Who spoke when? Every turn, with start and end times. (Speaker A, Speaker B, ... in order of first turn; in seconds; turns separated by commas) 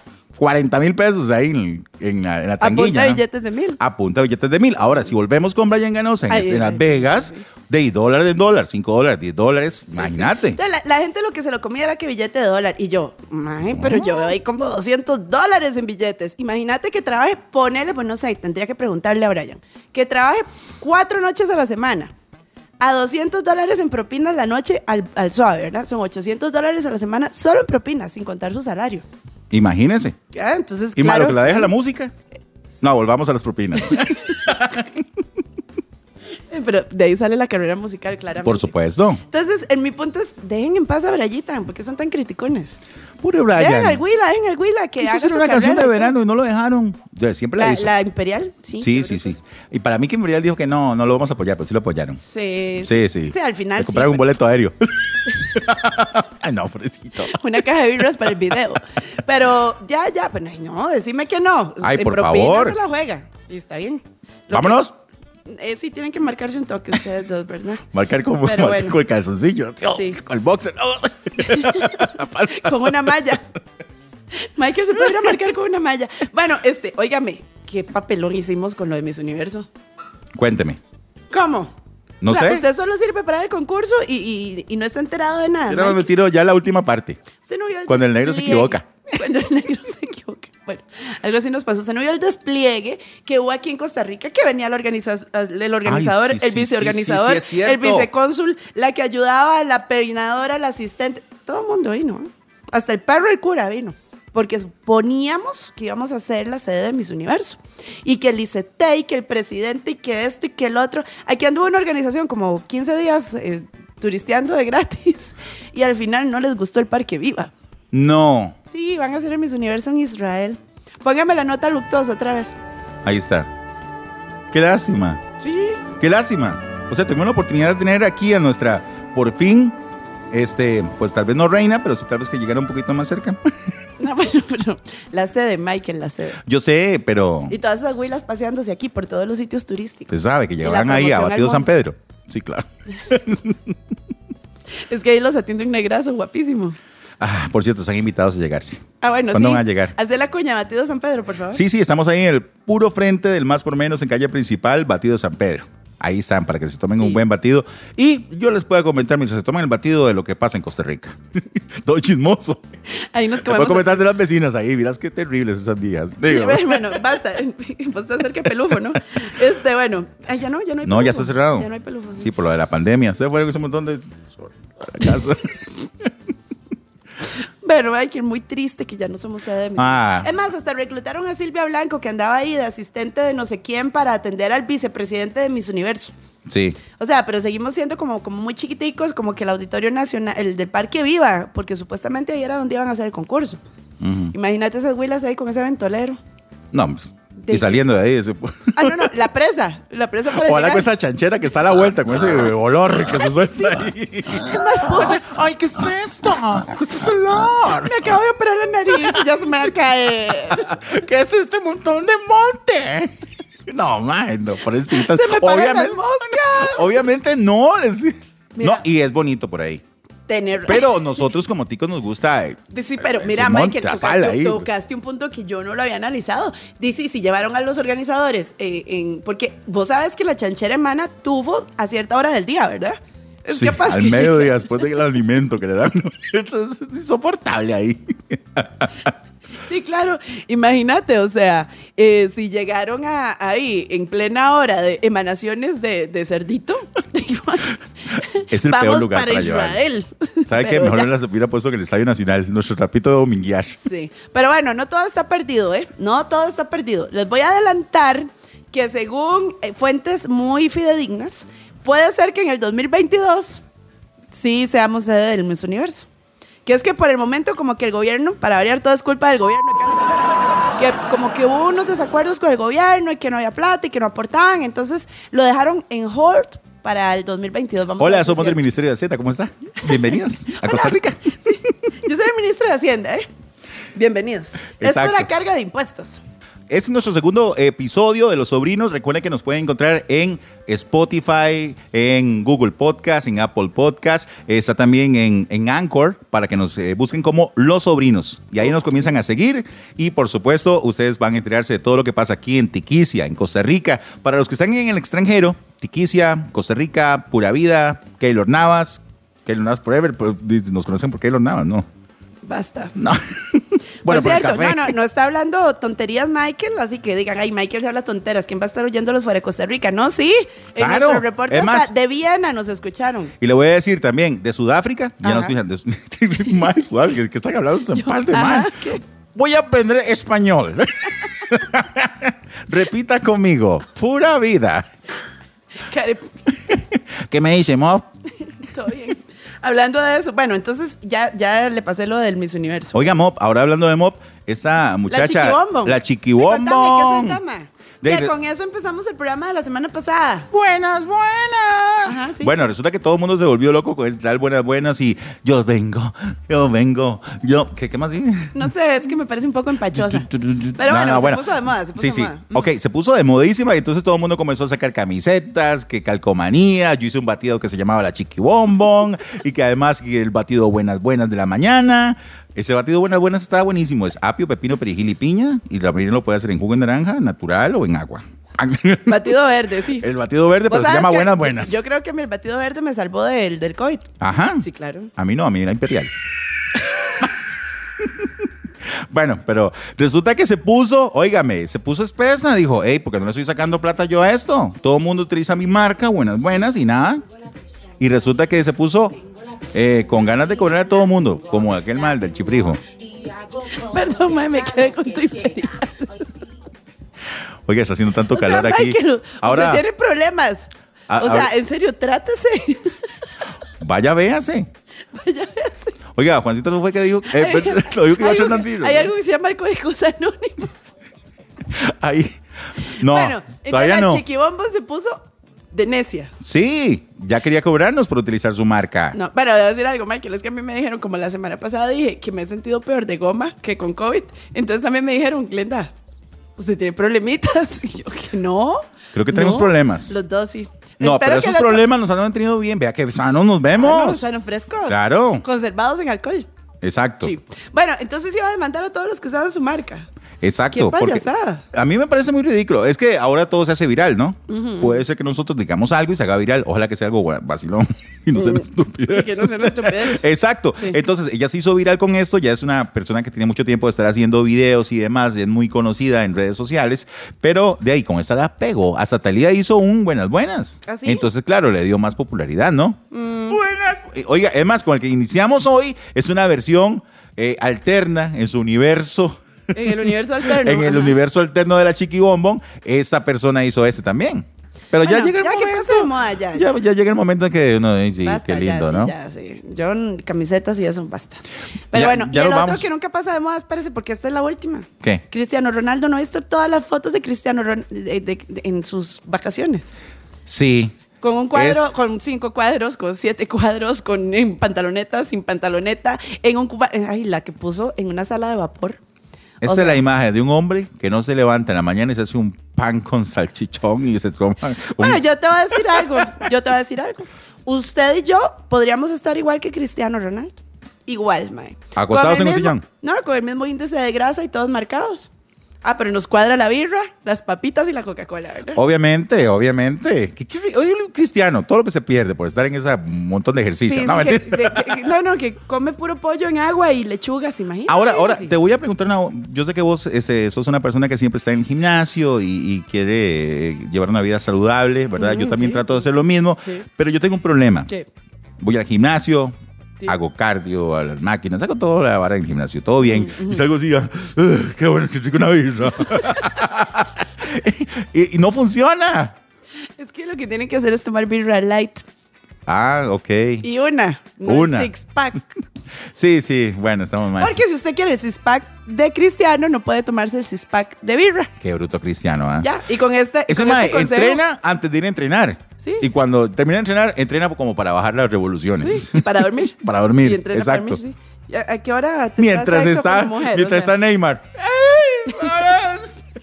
Speaker A: 0.3-3.2, Speaker B: 2.6-3.8, Speaker A: 3.8-10.6, Speaker B: 6.3-7.5, Speaker B: 9.9-22.1, Speaker A: 13.7-14.3, Speaker B: 22.8-29.1, Speaker A: 29.5-30.2, Speaker B: 30.3-31.7, Speaker A: 31.0-32.1, Speaker A: 32.8-35.1, Speaker B: 33.9-34.2, Speaker B: 36.5-38.7, Speaker A: 38.4-39.2, Speaker B: 39.2-42.7, Speaker A: 43.2-44.0, Speaker B: 43.6-46.1, Speaker A: 45.0-47.9, Speaker B: 47.6-49.4, Speaker A: 48.8-52.2, Speaker B: 52.2-54.3, Speaker A: 52.8-57.4, Speaker B: 57.3-64.8, Speaker A: 58.2-58.6, Speaker A: 61.8-62.8, Speaker A: 64.5-65.0, Speaker B: 65.5-67.8, Speaker A: 67.9-73.2, Speaker B: 68.4-69.0, Speaker B: 69.9-70.2, Speaker B: 71.4-73.4, Speaker B: 74.6-79.7, Speaker A: 80.4-80.8, Speaker B: 81.3-81.7, Speaker A: 82.2-82.7, Speaker B: 82.3-86.1, Speaker A: 85.7-87.2, Speaker B: 87.4-117.5, Speaker A: 87.9-88.9, Speaker A: 95.8-98.1, Speaker A: 117.9-118.6, Speaker B: 118.7-122.6, Speaker A: 123.0-123.5, Speaker A: 124.5-125.2, Speaker B: 125.4-125.8, Speaker A: 126.0-129.8, Speaker A: 130.3-133.6, Speaker B: 134.0-136.4, Speaker A: 136.4-137.6, Speaker B: 137.5-141.7, Speaker A: 140.1-143.8, Speaker B: 144.9-146.8, Speaker A: 147.2-149.9, Speaker B: 149.0-151.6, Speaker A: 151.5-162.7, Speaker B: 162.9-164.1, Speaker A: 163.4-167.2, Speaker B: 166.2-172.3, Speaker A: 170.8-175.7, Speaker B: 177.6-186.1, Speaker A: 179.8-180.3, Speaker A: 186.5-186.8, Speaker B: 187.0-193.6, Speaker A: 194.0-194.3, Speaker B: 194.3-196.2, Speaker A: 196.7-199.1, Speaker B: 197.4-197.8, Speaker B: 198.8-200.9, Speaker A: 200.4-208.1, Speaker B: 204.3-205.2, Speaker B: 207.8-210.7, Speaker A: 208.9-209.3, Speaker A: 210.5-213.2, Speaker A: 213.7-219.8, Speaker B: 214.9-217.1, Speaker B: 218.6-218.9, Speaker B: 220.3-221.1, Speaker A: 220.6-224.7, Speaker B: 222.7-234.7, Speaker A: 233.5-239.1, Speaker B: 239.7-251.1, Speaker A: 248.5-249.8, Speaker A: 250.5-253.8, Speaker B: 253.8-263.6, Speaker B: 264.3-266.1, Speaker B: 266.6-278.6, Speaker A: 278.0-281.7, Speaker B: 279.9-283.3, Speaker B: 283.9-286.2, Speaker A: 284.8-285.3, Speaker A: 286.7-311.9, Speaker B: 312.4-312.9, Speaker A: 313.0-315.0, Speaker B: 314.1-323.3, Speaker A: 320.8-321.9, Speaker A: 323.4-334.9, Speaker B: 325.2-325.6, Speaker B: 327.9-329.0, Speaker B: 335.8-336.3, Speaker A: 336.5-338.1, Speaker B: 338.5-343.2, Speaker A: 342.9-347.4, Speaker B: 345.1-350.5, Speaker A: 348.0-348.3, Speaker A: 350.5-358.7, Speaker B: 352.0-352.5, Speaker B: 358.5-362.7, Speaker A: 359.9-379.4, Speaker B: 379.1-380.1, Speaker A: 380.0-381.8, Speaker B: 380.7-384.1, Speaker A: 384.2-384.6, Speaker B: 384.6-385.1, Speaker A: 385.2-386.1, Speaker B: 387.0-387.3, Speaker A: 388.0-388.3, Speaker A: 388.9-397.2, Speaker A: 398.0-402.8, Speaker B: 403.6-406.4, Speaker A: 407.7-409.9, Speaker B: 408.3-413.0, Speaker A: 411.1-411.5, Speaker A: 413.8-414.7, Speaker B: 415.1-416.0, Speaker A: 416.1-419.1, Speaker B: 417.3-420.9, Speaker A: 421.7-424.2, Speaker B: 422.9-426.3, Speaker A: 426.4-429.2, Speaker B: 429.1-435.9, Speaker B: 436.6-441.8, Speaker A: 439.1-440.1, Speaker A: 441.0-444.3, Speaker B: 443.8-446.5, Speaker A: 444.9-445.4, Speaker A: 446.8-447.3, Speaker B: 447.2-450.1, Speaker A: 450.4-489.1, Speaker B: 450.7-451.6, Speaker B: 454.5-455.0, Speaker B: 458.4-460.2, Speaker B: 470.9-471.3, Speaker B: 473.1-473.6, Speaker B: 479.7-481.2, Speaker B: 485.0-486.7, Speaker B: 488.2-499.9, Speaker A: 491.9-492.9, Speaker A: 500.5-501.0, Speaker B: 501.2-509.0, Speaker A: 501.5-501.9, Speaker A: 509.6-516.3, Speaker B: 509.6-510.0, Speaker B: 515.0-525.3, Speaker A: 522.0-522.8, Speaker B: 525.8-528.8, Speaker A: 528.8-535.0, Speaker B: 533.8-538.5, Speaker A: 537.9-547.9, Speaker B: 545.2-546.1, Speaker A: 548.6-549.5, Speaker A: 550.1-559.4, Speaker B: 553.0-553.6, Speaker B: 556.1-556.6, Speaker B: 560.0-562.0, Speaker A: 562.7-563.7, Speaker B: 563.6-565.5, Speaker A: 564.5-564.9, Speaker A: 566.1-567.6, Speaker B: 567.4-571.5, Speaker A: 571.6-572.7, Speaker B: 572.6-574.4, Speaker A: 573.5-581.0, Speaker B: 578.8-583.9, Speaker A: 582.4-586.2